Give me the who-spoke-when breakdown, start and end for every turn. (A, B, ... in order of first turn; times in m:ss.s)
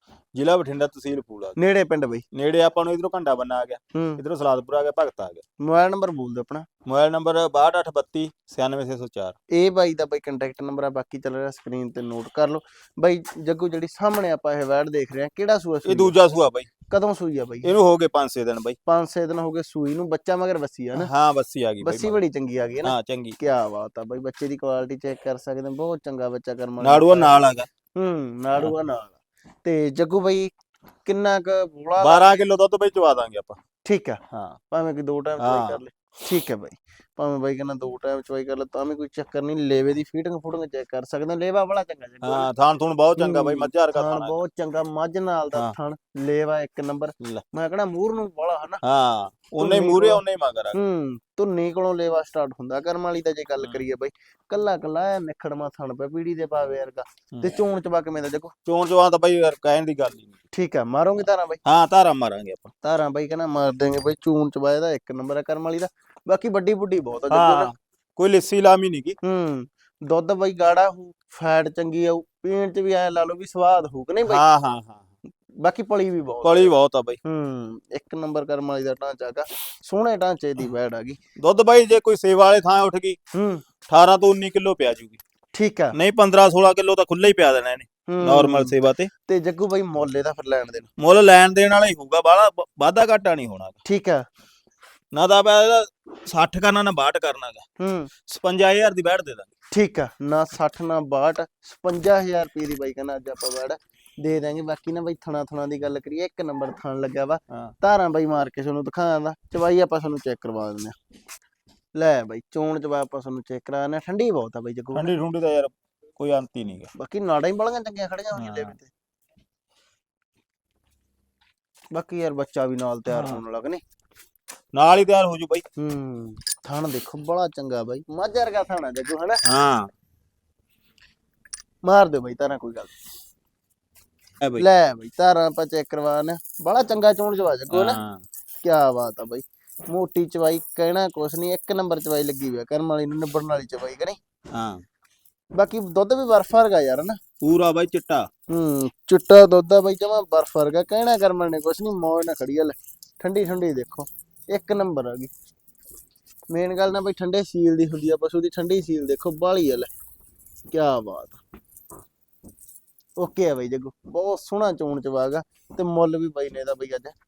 0:00.4-0:01.6 A
0:01.6-0:02.2 B
0:02.3-0:05.4 A
0:03.9-0:04.2 B
0:05.6-0:06.6 B
0:06.8-0:09.3 A
0:09.5-0:16.2 B
0:15.8-0:16.7 A
0:16.9-0:17.7 B
0:17.6-0:18.8 A
0:18.8-0:21.1 B
0:20.9-0:22.2 A
0:21.8-0:27.4 B
0:22.8-0:23.4 A
0:26.8-0:27.7 A
0:28.0-0:30.5 B
0:31.0-0:32.4 B
0:32.0-0:33.6 A
0:33.8-0:34.2 B
0:34.3-0:34.6 A
0:34.7-0:42.5 B
0:35.4-0:35.8 A
0:42.2-0:44.4 A
0:43.2-0:48.8 B
0:48.8-0:50.8 A
0:49.6-0:50.2 B
0:50.7-0:58.5 B
0:58.6-1:00.3 A
1:00.5-1:01.6 B
1:01.6-1:02.7 A
1:02.8-1:07.7 B
1:07.3-1:09.2 A
1:09.2-1:14.4 B
1:14.3-1:15.1 A
1:15.6-1:21.2 B
1:16.4-1:17.2 A
1:21.4-1:23.2 A
1:23.3-1:23.6 B
1:23.9-1:25.2 A
1:25.5-1:26.0 B
1:25.9-1:29.1 A
1:28.1-1:28.7 B
1:29.2-1:30.9 B
1:31.0-1:33.8 A
1:33.8-1:34.2 B
1:35.1-1:37.6 A
1:37.8-1:38.1 B
1:38.3-1:39.5 A
1:39.7-1:51.0 B
1:51.9-1:55.1 B
1:54.9-1:56.9 A
1:56.9-1:58.9 B
1:58.3-1:58.7 A
2:01.9-2:03.8 B
2:03.1-2:03.4 A
2:04.7-2:05.6 A
2:05.8-2:09.4 B
2:09.4-2:09.9 A
2:11.8-2:12.9 B
2:14.6-2:18.0 B
2:17.7-2:18.2 A
2:18.6-2:24.2 B
2:24.5-2:24.8 A
2:25.5-2:27.2 B
2:27.4-2:28.3 A
2:28.5-2:35.3 B
2:36.5-2:39.9 B
2:40.7-2:41.4 B
2:43.2-2:47.1 B